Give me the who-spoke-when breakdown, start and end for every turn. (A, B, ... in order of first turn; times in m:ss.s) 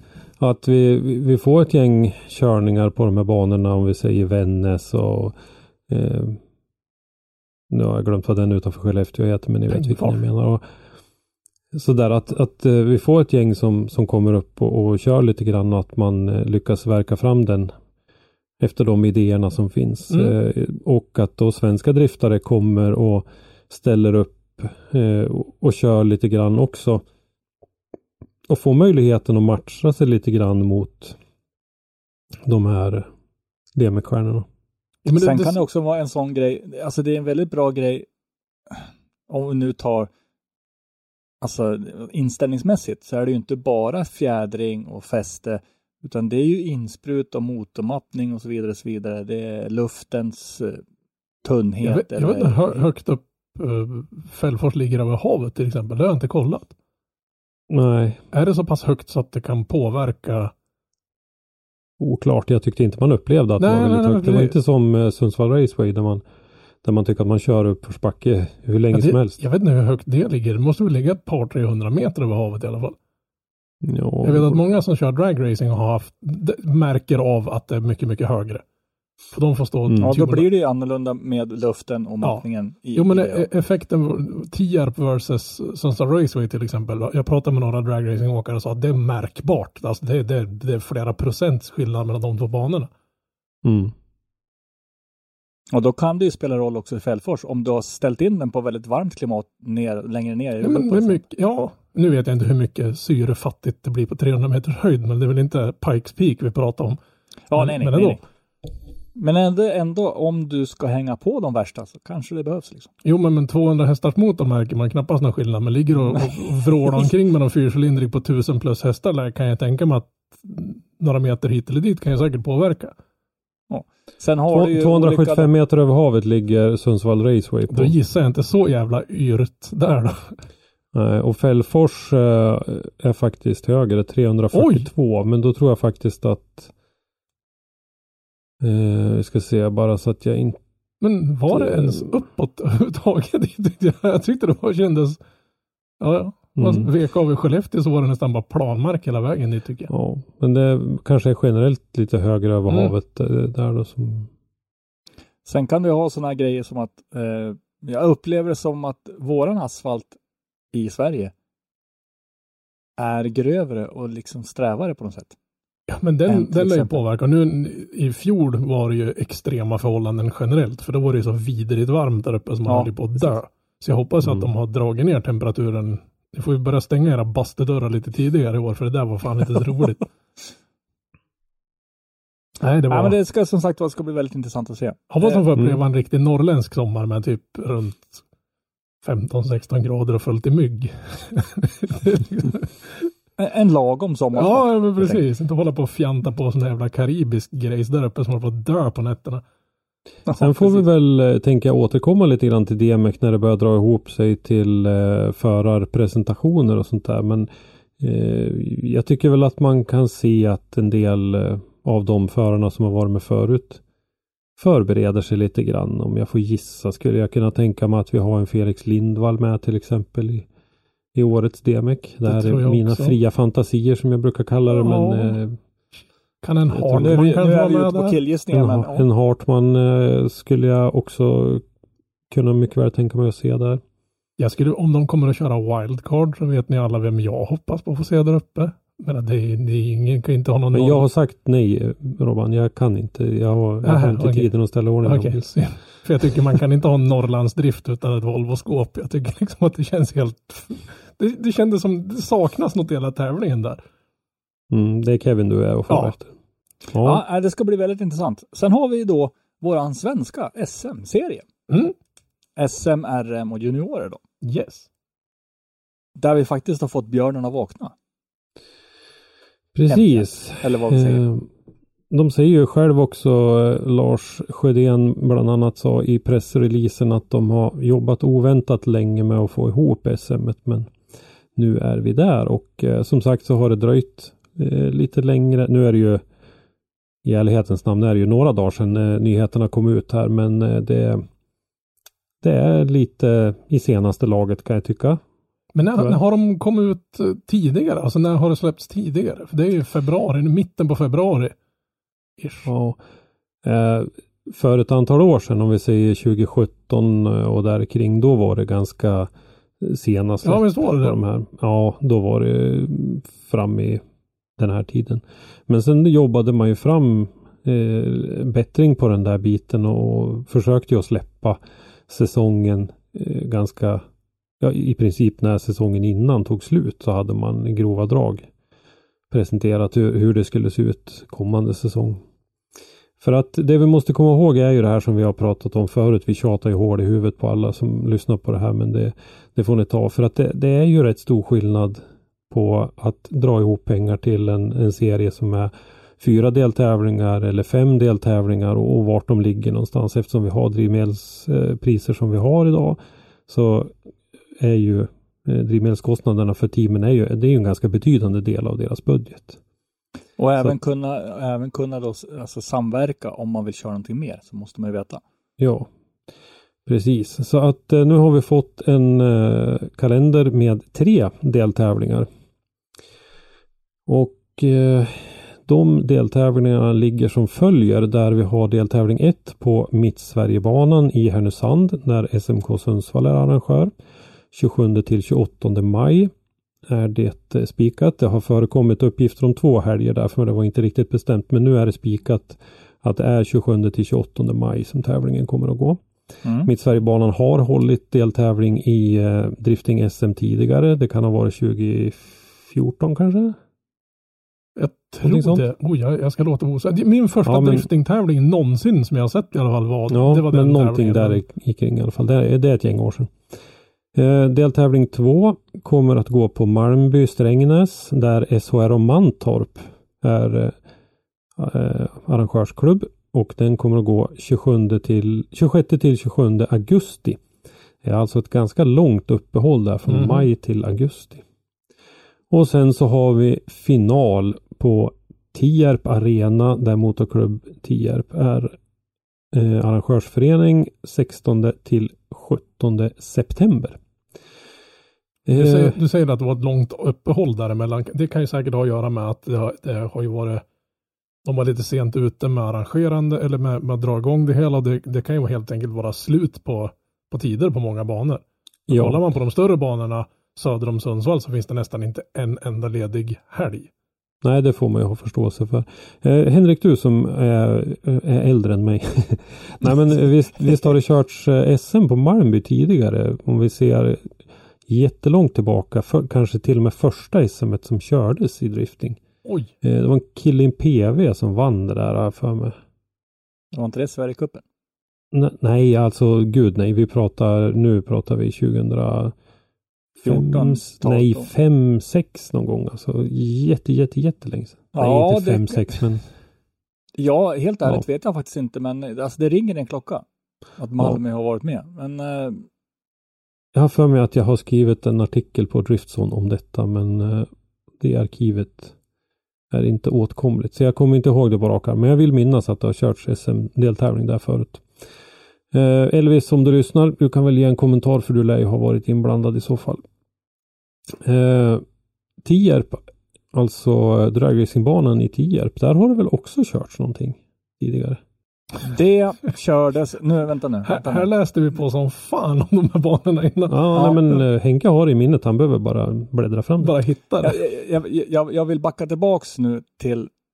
0:00.4-0:05.4 A
0:05.9-0:06.4 A
0:07.7-0:10.6 A
0:09.7-0:10.2 B
0:11.7-0:17.7 A
0:18.6-0:27.0 A
0:20.1-0:20.3 B
0:28.5-0:31.2 A
0:32.4-0:33.1 A
0:33.7-0:34.5 A
0:35.0-0:35.6 B
0:35.2-0:38.0 C
0:38.7-0:40.1 C
0:41.4-0:50.8 C
0:51.4-0:52.8 C
0:51.8-0:56.7 B
0:57.7-0:58.2 A
0:58.3-1:00.5 B
1:02.0-1:06.2 A
1:03.6-1:04.6 B
1:06.8-1:09.4 A
1:08.9-1:12.9 B
1:13.8-1:14.6 A
1:14.2-1:18.6 B
1:19.3-1:20.5 B
1:19.9-1:20.1 A
1:20.0-1:23.5 C
1:22.9-1:32.9 B
1:33.6-1:33.9 A
1:35.7-1:41.2 C
1:40.6-1:47.0 B
1:47.5-1:48.2 C
1:47.5-1:48.2 B
1:49.1-1:52.9 C
1:53.0-2:02.9 B
2:03.7-2:05.5 C
2:04.5-2:07.9 A
2:07.7-2:10.4 B
2:10.9-2:16.7 A
2:14.5-2:14.9 B
2:18.6-2:20.6 A
2:21.0-2:25.2 B
2:21.5-2:22.1 A
2:26.0-2:29.9 B
2:26.6-2:26.9 A
2:29.9-2:34.3 A
2:32.7-2:32.9 B
2:35.4-2:40.2 C
2:40.7-2:41.3 C
2:43.0-2:45.3 C
2:45.9-3:00.0 B
2:46.2-2:47.0 C
2:52.6-2:53.4 C
3:02.6-3:03.2 B
3:02.9-3:05.4 C
3:05.1-3:08.2 B
3:09.0-3:13.1 B
3:13.4-3:15.2 C
3:14.3-3:19.4 B
3:20.3-3:20.8 C
3:20.4-3:27.5 A
3:28.0-3:33.8 A
3:34.6-3:40.5 A
3:41.1-3:45.6 A
3:42.2-3:43.2 B
3:44.7-3:45.4 B
3:46.4-3:48.2 B
3:46.7-3:47.2 A
3:47.0-3:49.0 C
3:48.5-3:51.6 A
3:52.3-3:53.8 A
3:54.4-4:01.1 B
4:00.7-4:05.4 A
4:03.8-4:04.5 B
4:05.0-4:13.8 B
4:14.7-4:16.3 A
4:15.9-4:16.1 B
4:16.9-4:17.2 A
4:17.0-4:21.4 C
4:21.7-4:21.9 B
4:22.6-4:24.2 C
4:24.4-4:24.9 B
4:26.2-4:27.9 C
4:29.7-4:31.5 A
4:29.9-4:31.2 C
4:32.1-4:40.9 A
4:41.6-4:46.2 A
4:47.2-4:51.2 A
4:52.4-4:55.2 A
4:55.7-5:01.5 B
4:55.9-4:56.2 A
5:02.4-5:02.7 B
5:02.7-5:03.0 A
5:03.6-5:14.0 A
5:10.4-5:11.2 B
5:14.6-5:24.0 A
5:24.6-5:28.5 A
5:29.3-5:32.2 A
5:33.2-5:54.0 A
5:54.6-5:59.6 A
6:00.4-6:05.2 C
6:05.6-6:05.9 A
6:06.8-6:12.3 A
6:14.1-6:23.9 A
6:24.5-6:26.3 A
6:26.9-6:36.0 A
6:36.4-6:36.7 C
6:36.6-6:43.6 A
6:44.8-6:51.4 B
6:45.2-6:45.6 A
6:47.4-6:47.9 A
6:50.1-6:53.3 A
6:54.1-7:00.7 A
7:01.6-7:07.4 A
7:08.0-7:11.4 A
7:10.1-7:10.4 B
7:12.5-7:18.7 A
7:19.5-7:24.0 A
7:25.4-7:26.0 A
7:25.5-7:30.6 B
7:31.4-7:43.9 B
7:38.9-7:39.2 A
7:44.4-7:54.3 A
7:54.9-7:59.2 A
7:59.4-7:59.7 B
7:59.8-8:02.8 A
8:03.7-8:04.6 C
8:05.3-8:09.3 A
8:10.2-8:16.2 A
8:10.2-8:11.5 C
8:14.9-8:16.0 C
8:17.2-8:20.2 C
8:20.8-8:22.6 C
8:23.7-8:28.9 A
8:29.7-8:34.8 A
8:35.7-8:40.0 A
8:41.2-8:41.8 A
8:42.4-8:48.2 A
8:48.8-8:51.3 C
8:50.8-8:54.4 B
8:53.7-8:56.9 A
8:56.8-8:57.6 B
8:57.4-9:00.3 C